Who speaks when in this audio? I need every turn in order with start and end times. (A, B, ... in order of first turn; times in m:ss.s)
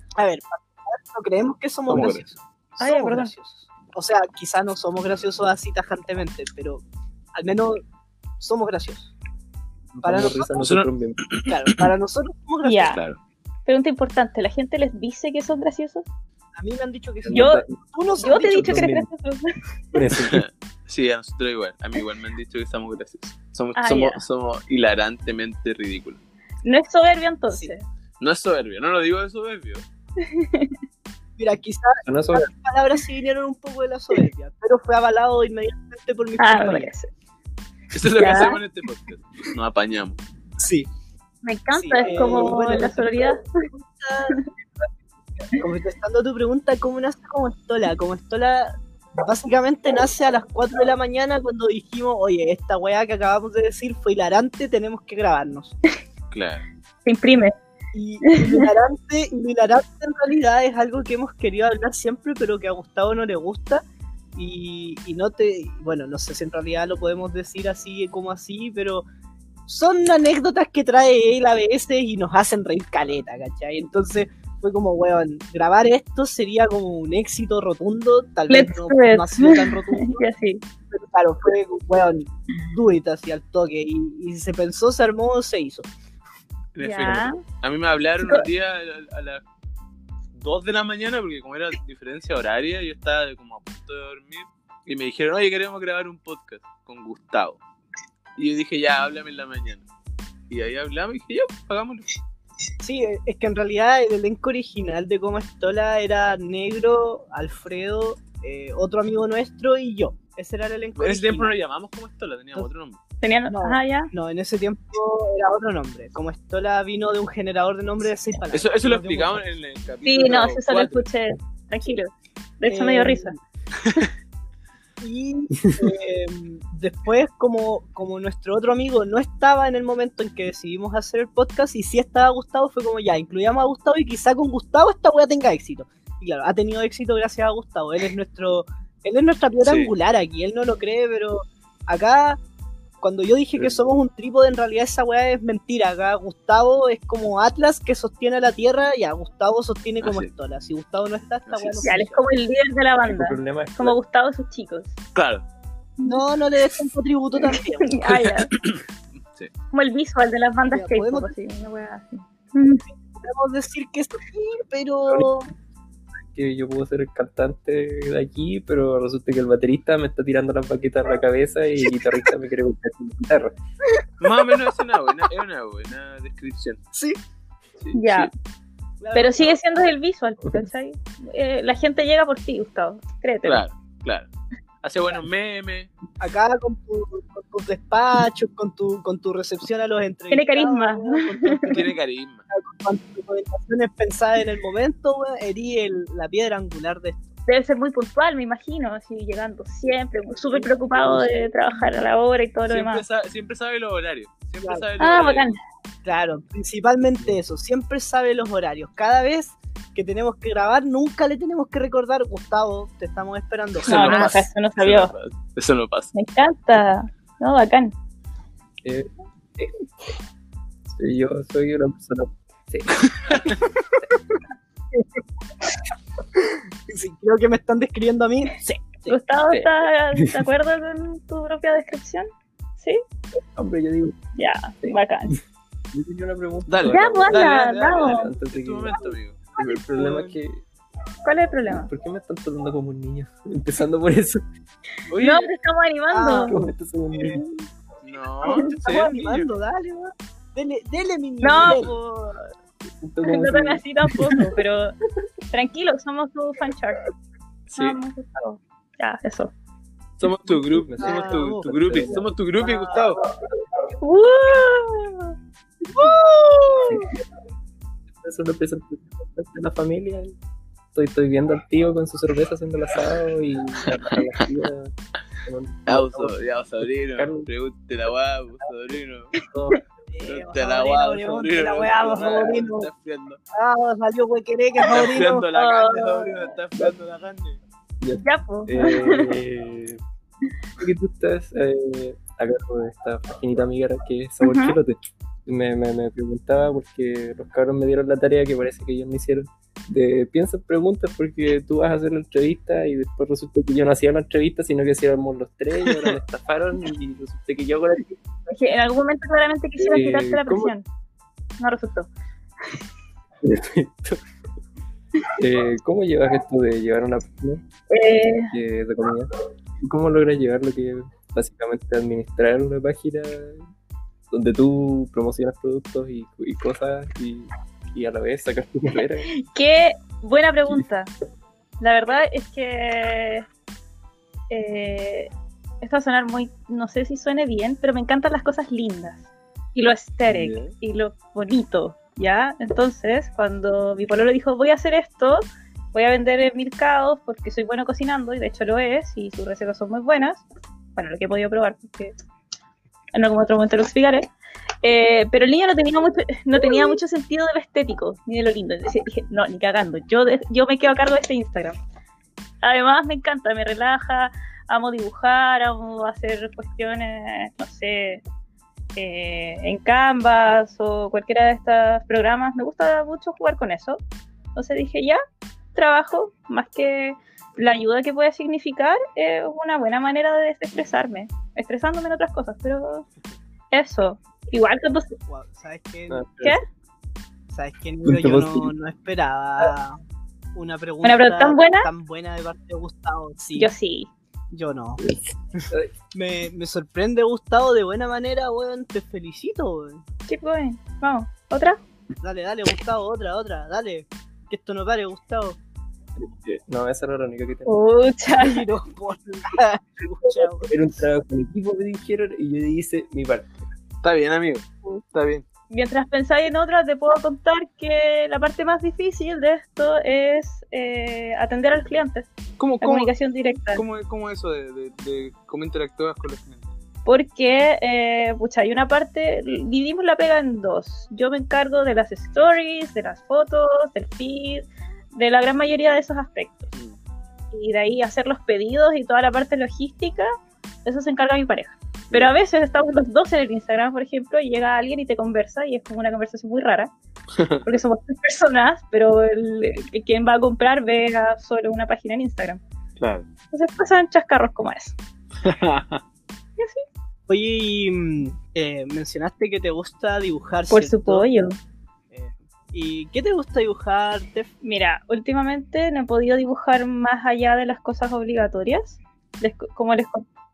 0:00.2-0:06.8 A
0:01.9-0:02.2 B
0:02.8-0:03.3 C
0:07.3-0:07.8 A
0:08.4-0:09.1 A
0:09.9-0:11.2 D
0:10.0-0:10.5 A
0:10.6-0:11.8 B
0:11.5-0:12.9 A
0:12.6-0:13.0 C
0:12.8-0:13.2 B
0:13.6-0:16.0 C
0:16.6-0:18.9 A
0:17.2-0:19.1 D
0:17.3-0:17.6 C
0:18.2-0:19.5 C
0:19.9-0:20.4 D
0:20.2-0:26.2 B
0:23.8-0:24.2 C
0:26.6-0:27.8 C
0:28.2-0:29.8 B
0:30.2-0:30.8 C
0:31.4-0:36.9 A
0:32.0-0:32.5 D
0:36.4-0:37.1 C
0:37.9-0:40.2 B
0:38.2-0:38.6 C
0:40.6-0:40.9 A
0:41.4-0:43.4 C
0:41.7-0:44.4 A
0:45.6-0:55.8 A
0:56.3-0:56.6 B
0:57.0-0:57.5 C
0:57.9-1:03.8 A
0:58.3-0:58.6 C
1:04.3-1:09.0 A
1:09.7-1:20.2 A
1:18.5-1:20.6 C
1:20.9-1:25.9 A
1:26.7-1:29.4 B
1:26.8-1:27.4 C
1:30.4-1:37.6 B
1:38.4-1:39.8 B
1:40.5-1:42.0 B
1:42.8-1:51.5 A
1:51.0-1:53.0 B
1:53.2-1:54.1 C
1:53.5-1:59.4 A
1:58.5-2:01.0 B
2:00.0-2:03.3 C
2:02.7-2:03.4 A
2:05.0-2:22.4 A
2:19.6-2:19.9 B
2:23.0-2:32.2 A
2:30.0-2:30.3 B
2:31.5-2:31.9 B
2:31.8-2:34.9 C
2:33.0-2:34.0 D
2:35.1-2:35.4 B
2:36.0-2:38.0 A
2:37.4-2:38.5 C
2:38.0-2:38.8 B
2:39.7-2:42.8 C
2:40.7-2:41.3 A
2:43.1-2:45.5 A
2:46.3-2:53.5 D
2:54.2-2:56.8 B
2:56.9-2:57.2 A
2:57.8-2:58.3 B
2:57.9-2:58.3 C
2:59.0-2:59.6 A
2:59.1-3:03.6 C
3:03.4-3:04.3 B
3:04.8-3:05.9 B
3:06.2-3:11.8 A
3:10.3-3:11.8 C
3:11.6-3:12.4 B
3:12.5-3:17.3 A
3:17.5-3:23.0 C
3:20.5-3:21.5 A
3:22.7-3:25.6 B
3:25.0-3:25.6 C
3:26.0-3:34.4 A
3:33.8-3:36.1 B
3:33.8-3:35.1 C
3:36.1-3:37.9 C
3:38.8-3:39.8 D
3:40.9-3:43.6 D
3:43.1-3:43.6 B
3:46.9-3:49.2 A
3:48.6-3:53.0 C
3:49.5-3:50.4 D
3:53.6-3:54.2 D
3:54.4-3:55.4 C
3:55.9-4:00.6 D
3:56.7-3:59.4 B
3:56.9-3:58.3 C
3:59.6-4:00.3 A
4:01.2-4:01.9 C
4:01.7-4:04.4 D
4:05.1-4:05.5 B
4:05.2-4:06.6 C
4:06.1-4:06.6 A
4:06.5-4:07.4 D
4:08.0-4:09.5 B
4:08.5-4:12.0 A
4:11.4-4:12.5 C
4:13.0-4:14.6 D
4:13.3-4:14.9 C
4:15.5-4:17.1 C
4:17.7-4:18.0 B
4:17.8-4:19.5 C
4:20.2-4:23.2 B
4:20.5-4:22.3 D
4:21.0-4:23.0 A
4:24.0-4:25.3 C
4:25.9-4:27.1 A
4:26.9-4:27.2 D
4:28.2-4:30.4 D
4:30.9-4:34.9 D
4:35.4-4:37.5 D
4:35.9-4:39.3 B
4:39.3-4:39.8 D
4:40.1-4:42.9 A
4:40.2-4:43.4 B
4:43.5-4:45.5 A
4:44.8-4:47.6 B
4:45.5-4:46.5 C
4:48.0-4:50.0 D
4:48.2-4:49.4 C
4:50.8-5:08.2 D
4:54.4-4:54.8 C
5:05.9-5:06.2 B
5:08.5-5:10.8 C
5:09.8-5:10.7 D
5:11.6-5:12.1 C
5:13.4-5:14.2 D
5:15.4-5:17.6 D
5:17.9-5:18.5 C
5:18.5-5:19.3 D
5:19.8-5:23.6 D
5:24.3-5:29.3 D
5:29.3-5:31.1 C
5:31.8-5:33.4 C
5:34.5-5:35.3 C
5:35.8-5:50.4 C
5:40.3-5:40.7 D
5:51.0-5:52.1 C
5:53.1-5:54.3 C
5:54.8-6:01.8 C
6:02.6-6:08.2 C
6:09.0-6:14.0 C
6:14.5-6:15.2 C
6:15.7-6:23.0 C
6:23.7-6:25.1 C
6:25.3-6:26.2 A
6:26.1-6:26.6 D
6:27.5-6:30.0 A
6:28.0-6:28.7 D
6:30.5-6:33.7 A
6:31.0-6:31.9 C
6:33.6-6:34.1 C
6:34.5-6:35.0 A
6:35.0-6:35.9 D
6:35.6-6:40.0 A
6:40.3-6:41.8 C
6:42.2-6:45.6 A
6:46.2-6:47.8 D
6:47.6-6:48.6 C
6:48.4-6:50.7 A
6:50.6-6:53.7 D
6:54.0-6:55.4 B
6:55.7-7:02.3 C
7:02.6-7:03.1 B
7:02.8-7:03.8 C
7:03.7-7:06.7 B
7:07.0-7:16.7 C
7:17.5-7:20.3 C
7:20.8-7:26.9 C
7:27.4-7:27.6 B
7:27.6-7:32.6 C
7:33.0-7:33.2 B
7:33.5-7:35.0 C
7:35.4-7:36.0 B
7:37.3-7:41.3 A
7:40.7-7:41.6 C
7:42.1-7:44.5 A
7:44.6-7:50.2 C